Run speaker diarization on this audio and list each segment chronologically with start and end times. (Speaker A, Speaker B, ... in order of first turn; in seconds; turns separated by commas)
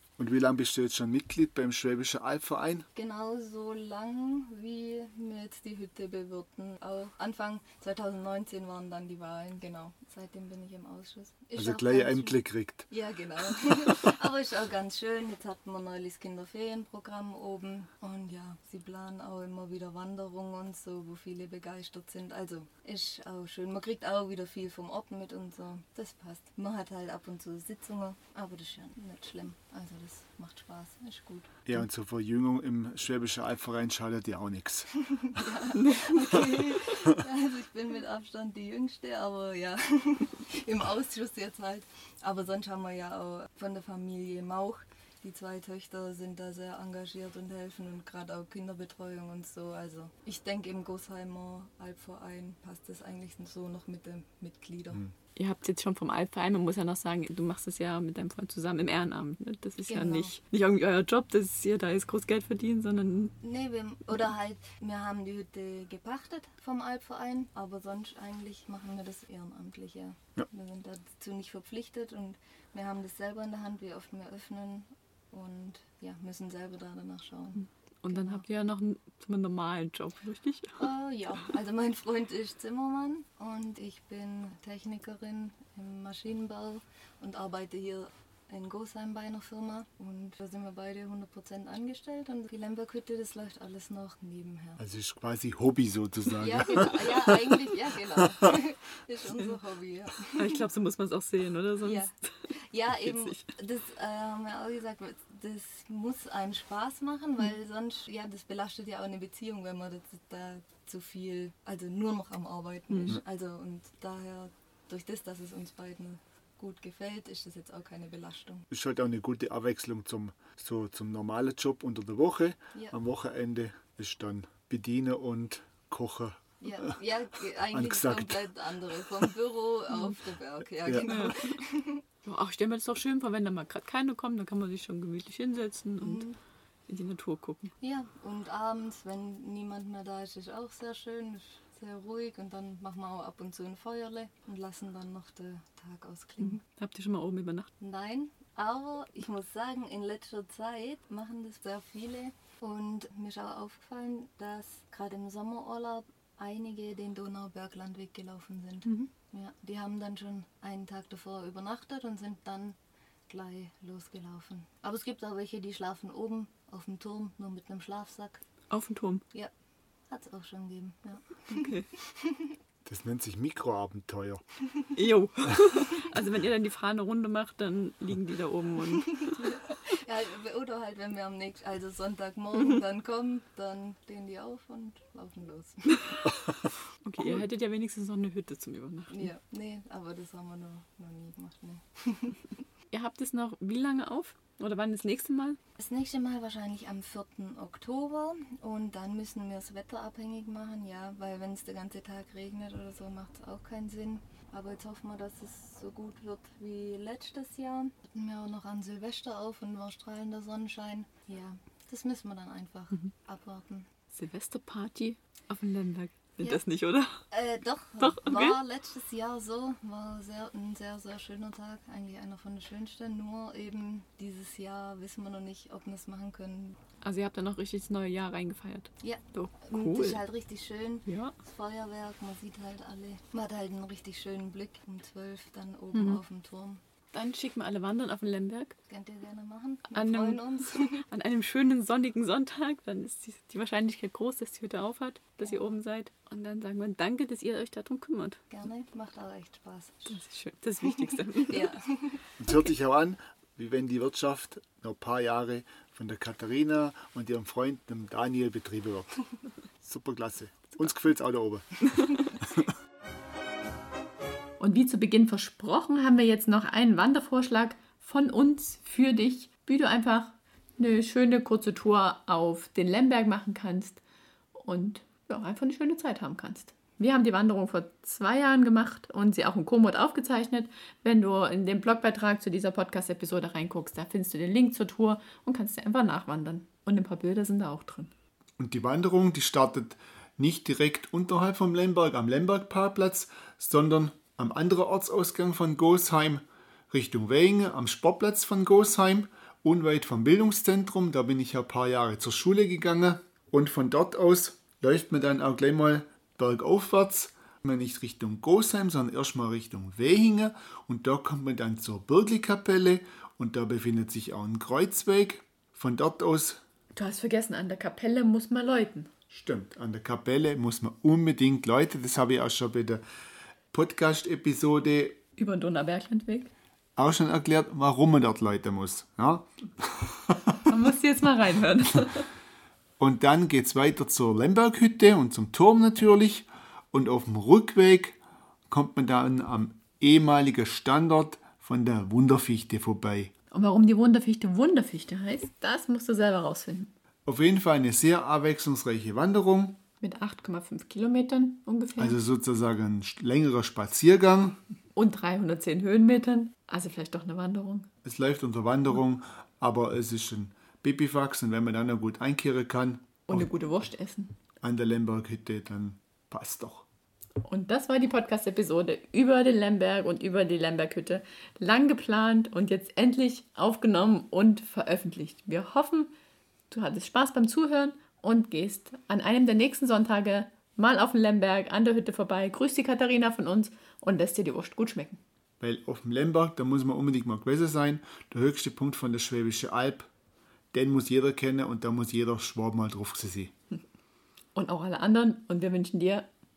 Speaker A: 0.2-2.9, Speaker B: 2.9-31.6, Speaker A: 11.6-12.9, Speaker A: 31.6-34.9, Speaker B: 35.0-55.0, Speaker C: 35.7-36.2, Speaker C: 55.4-63.3, Speaker B: 59.9-60.3, Speaker B: 63.4-78.4, Speaker C: 77.6-80.8, Speaker B: 80.8-94.8, Speaker A: 94.8-97.6, Speaker B: 96.4-100.5, Speaker A: 98.2-98.5, Speaker C: 100.3-103.5, Speaker B: 101.8-118.7, Speaker C: 112.9-113.2, Speaker A: 118.7-126.9, Speaker B: 126.6-132.0, Speaker A: 127.7-128.5, Speaker C: 131.1-131.6, Speaker C: 132.2-136.2, Speaker B: 136.0-136.4, Speaker C: 136.9-137.7, Speaker B: 137.8-146.6, Speaker C: 146.4-147.7, Speaker B: 147.8-162.8, Speaker C: 158.8-159.1, Speaker B: 163.3-168.4, Speaker C: 168.7-169.2, Speaker B: 170.1-172.5, Speaker C: 171.5-171.9, Speaker A: 172.8-174.4, Speaker C: 174.9-180.0, Speaker B: 179.3-186.3, Speaker C: 187.0-189.3, Speaker B: 189.1-192.5, Speaker C: 192.9-195.6, Speaker B: 195.8-213.9, Speaker C: 214.1-217.2, Speaker B: 217.3-226.8, Speaker C: 218.0-218.6, Speaker C: 227.0-230.2, Speaker B: 229.0-236.8, Speaker C: 231.1-231.3, Speaker C: 235.9-236.2, Speaker C: 237.1-238.8, Speaker B: 238.9-241.0, Speaker C: 239.9-248.4, Speaker B: 248.5-250.2, Speaker C: 250.1-251.7, Speaker B: 251.5-252.2, Speaker A: 252.4-259.2, Speaker A: 259.8-261.8, Speaker C: 261.9-262.2, Speaker C: 264.6-274.0, Speaker C: 274.5-288.1, Speaker A: 288.6-316.6, Speaker C: 316.9-319.1, Speaker A: 319.3-323.0, Speaker A: 323.7-325.2, Speaker C: 325.4-326.5, Speaker A: 326.9-330.6, Speaker C: 330.6-332.3, Speaker A: 333.0-343.3, Speaker C: 343.5-346.9, Speaker A: 347.2-349.8, Speaker C: 350.0-352.2, Speaker A: 352.0-354.6, Speaker C: 354.9-357.9, Speaker A: 358.0-363.5, Speaker C: 363.3-364.4, Speaker A: 364.6-366.9, Speaker C: 367.4-376.1, Speaker C: 376.7-385.2, Speaker A: 385.6-390.1, Speaker A: 390.7-393.5, Speaker C: 394.5-396.3